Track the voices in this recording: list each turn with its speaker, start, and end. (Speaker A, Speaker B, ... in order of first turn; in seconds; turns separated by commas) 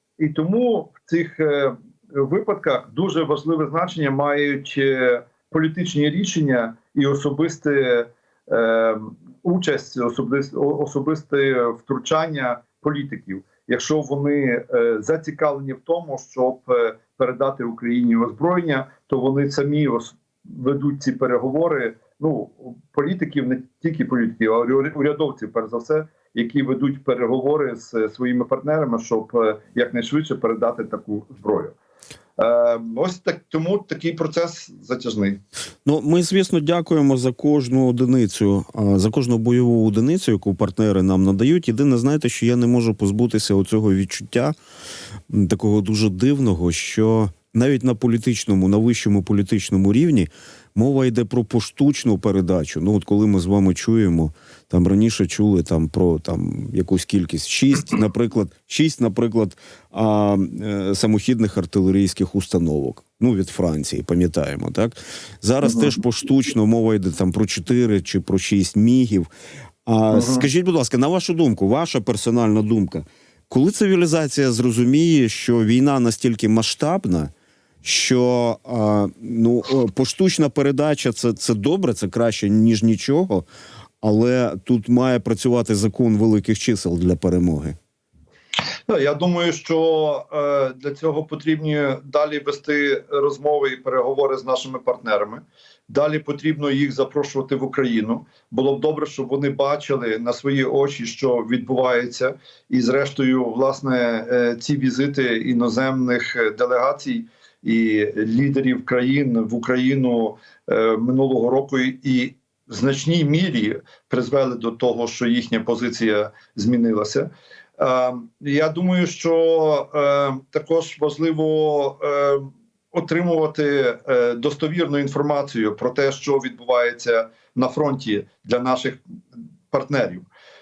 Speaker A: 0.2-31.7, Speaker A: 32.4-35.4, Speaker B: 35.8-44.5, Speaker B: 45.3-69.3, Speaker A: 65.6-66.0, Speaker B: 69.8-77.3, Speaker A: 70.1-70.5, Speaker B: 77.8-83.5, Speaker B: 84.0-87.8, Speaker A: 88.9-129.0, Speaker A: 129.7-130.3